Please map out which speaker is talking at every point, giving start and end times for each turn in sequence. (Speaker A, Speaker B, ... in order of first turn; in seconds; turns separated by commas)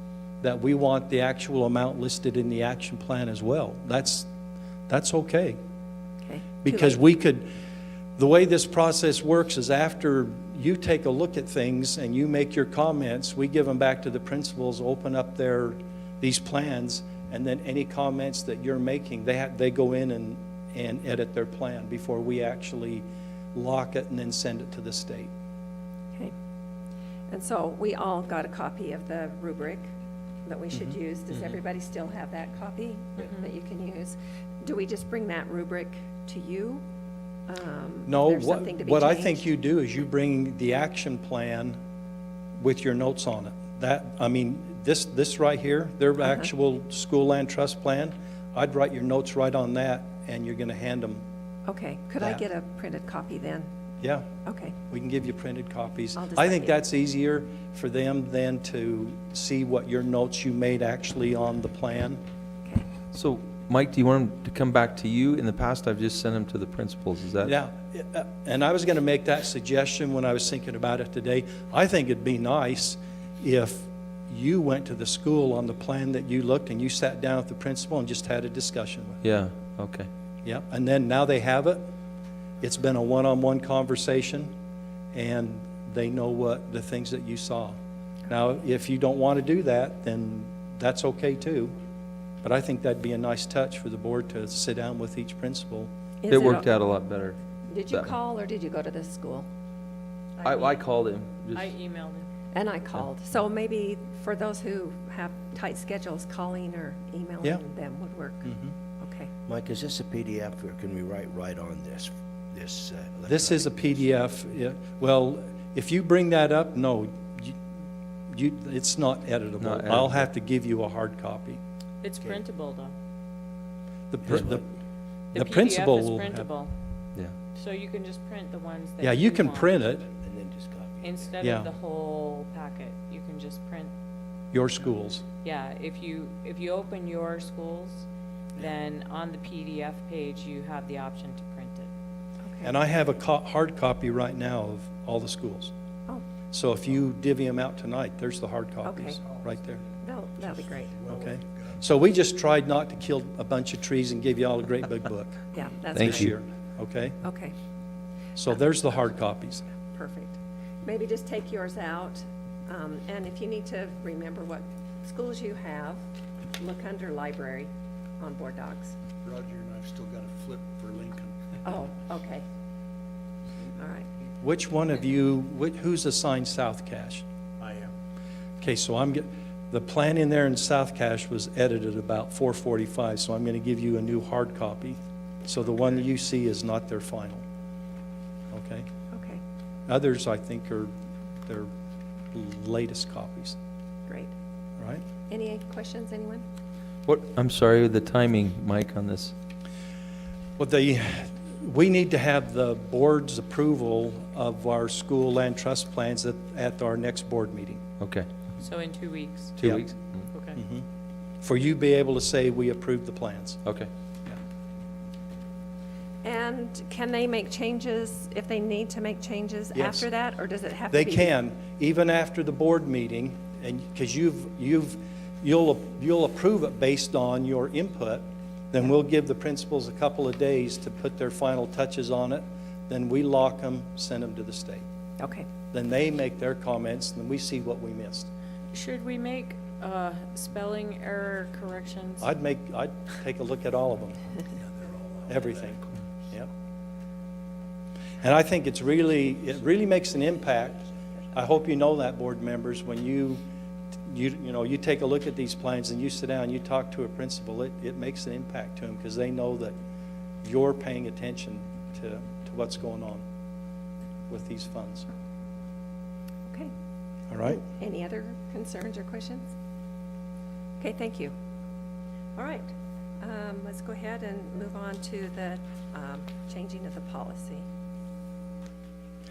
Speaker A: 0.4-4.3, Speaker A: 4.9-5.6, Speaker B: 6.2-7.0, Speaker A: 6.6-7.5, Speaker A: 8.2-25.3, Speaker B: 27.3-29.9, Speaker B: 30.4-36.8, Speaker A: 30.7-31.0, Speaker C: 33.2-33.5, Speaker B: 37.5-39.5, Speaker A: 38.1-41.8, Speaker A: 42.6-51.2, Speaker B: 51.7-53.7, Speaker A: 54.0-54.3, Speaker B: 54.5-54.8, Speaker A: 54.9-62.2, Speaker B: 56.2-56.8, Speaker D: 63.1-67.5, Speaker A: 67.4-79.2, Speaker D: 79.2-80.1, Speaker A: 80.4-81.9, Speaker A: 82.6-84.5, Speaker A: 85.1-87.8, Speaker A: 88.3-91.8, Speaker A: 92.4-95.9, Speaker B: 96.2-96.7, Speaker D: 96.3-97.4, Speaker B: 97.7-99.5, Speaker B: 100.4-100.8, Speaker D: 100.4-101.7, Speaker C: 101.5-102.3, Speaker B: 102.5-109.3, Speaker A: 108.5-108.8, Speaker E: 109.5-113.9, Speaker A: 113.3-117.6, Speaker A: 118.3-121.6, Speaker D: 119.6-120.3, Speaker C: 122.0-122.9, Speaker A: 124.1-124.7, Speaker C: 125.3-126.8, Speaker A: 125.3-126.5, Speaker C: 127.5-129.8, Speaker A: 129.0-130.1, Speaker E: 130.2-131.6, Speaker C: 131.0-133.9, Speaker A: 131.4-131.7, Speaker A: 134.5-135.2, Speaker C: 135.4-141.9, Speaker B: 142.4-142.7, Speaker A: 142.6-145.7, Speaker A: 146.5-149.8, Speaker B: 148.8-149.2, Speaker B: 150.0-151.0, Speaker F: 150.6-151.7, Speaker A: 151.1-157.2, Speaker B: 155.5-156.3, Speaker D: 155.9-156.3, Speaker B: 157.2-157.6, Speaker A: 158.4-159.7, Speaker B: 159.8-166.0, Speaker B: 166.6-167.7, Speaker B: 168.2-168.9, Speaker F: 169.2-171.3, Speaker B: 171.6-172.4, Speaker B: 173.8-174.1, Speaker A: 174.4-177.2, Speaker F: 177.6-177.9, Speaker A: 178.6-187.4, Speaker A: 188.5-188.9, Speaker B: 189.1-189.4, Speaker A: 189.9-190.9, Speaker A: 192.3-193.6, Speaker B: 194.1-194.3, Speaker A: 194.8-195.0, Speaker B: 195.3-196.4, Speaker D: 197.1-199.3, Speaker A: 200.6-207.8, Speaker D: 208.0-208.3, Speaker C: 208.6-209.6, Speaker D: 209.6-210.3, Speaker C: 210.3-210.6, Speaker A: 210.6-210.9, Speaker A: 211.4-213.6, Speaker D: 213.6-213.9, Speaker B: 216.2-221.3, Speaker A: 219.8-220.1, Speaker A: 220.9-234.8, Speaker B: 235.2-235.5, Speaker A: 235.7-238.3, Speaker C: 238.7-242.3, Speaker A: 242.2-244.2, Speaker A: 245.3-246.5, Speaker A: 248.2-253.4, Speaker A: 254.1-259.8, Speaker A: 260.4-263.2, Speaker A: 264.3-265.1, Speaker A: 267.3-267.6, Speaker B: 267.5-269.5, Speaker B: 270.8-271.3, Speaker B: 272.4-272.7, Speaker B: 273.2-277.6